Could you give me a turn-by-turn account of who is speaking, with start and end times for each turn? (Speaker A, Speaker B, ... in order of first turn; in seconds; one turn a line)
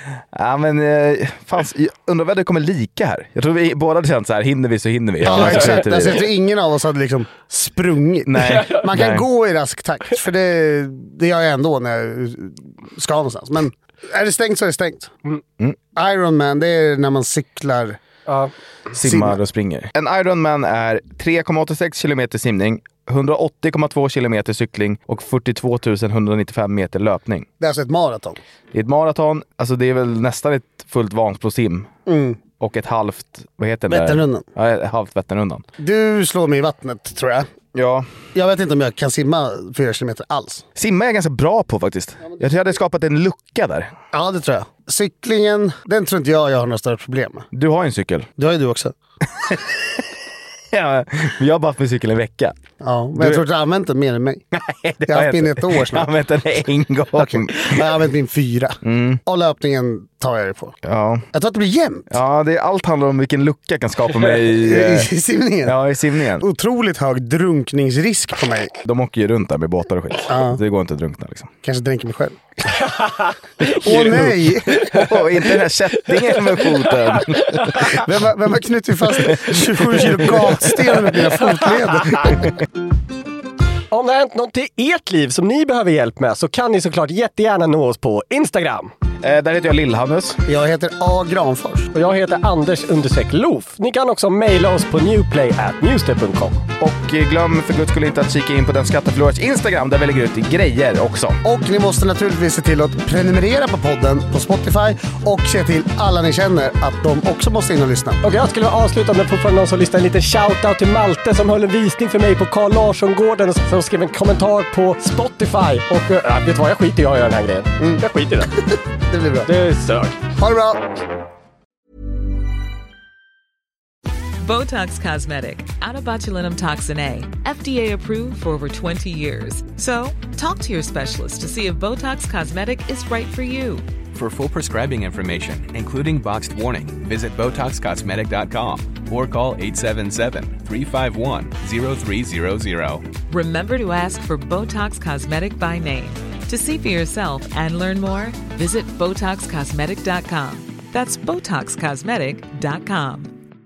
Speaker A: 0.3-6.2
Speaker B: 5.2-15.1
Speaker A: 8.3-9.2
Speaker C: 8.4-8.9
Speaker B: 15.9-18.0
Speaker A: 18.9-27.5
Speaker B: 19.0-19.4
Speaker B: 27.6-28.4
Speaker A: 28.7-31.9
Speaker B: 32.1-32.4
Speaker A: 32.6-35.6
Speaker B: 33.9-34.4
Speaker B: 35.8-37.5
Speaker A: 37.7-38.0
Speaker B: 38.3-40.6
Speaker A: 40.8-43.9
Speaker B: 44.1-47.5
Speaker A: 47.5-48.3
Speaker B: 48.4-49.0
Speaker A: 49.4-50.0
Speaker A: 50.7-52.5
Speaker B: 52.8-54.4
Speaker A: 53.2-53.4
Speaker A: 54.5-57.9
Speaker B: 55.0-56.1
Speaker B: 57.1-60.8
Speaker A: 58.8-59.2
Speaker A: 60.8-61.2
Speaker B: 61.3-62.0
Speaker A: 62.1-65.1
Speaker B: 64.5-65.7
Speaker A: 65.6-66.4
Speaker B: 66.4-68.7
Speaker A: 68.8-71.5
Speaker B: 70.3-70.6
Speaker B: 71.6-72.4
Speaker C: 72.8-73.8
Speaker B: 73.8-75.0
Speaker A: 73.9-78.0
Speaker C: 77.1-77.9
Speaker B: 77.9-82.5
Speaker A: 79.4-80.2
Speaker C: 83.9-88.9
Speaker A: 89.2-90.4
Speaker B: 90.5-91.9
Speaker C: 91.9-96.6
Speaker A: 96.8-101.4
Speaker B: 101.4-108.2
Speaker C: 108.2-118.6
Speaker B: 118.5-119.5
Speaker C: 119.4-120.2
Speaker B: 120.3-120.8
Speaker D: 124.4-133.9
Speaker E: 134.1-143.0
Speaker D: 143.3-153.4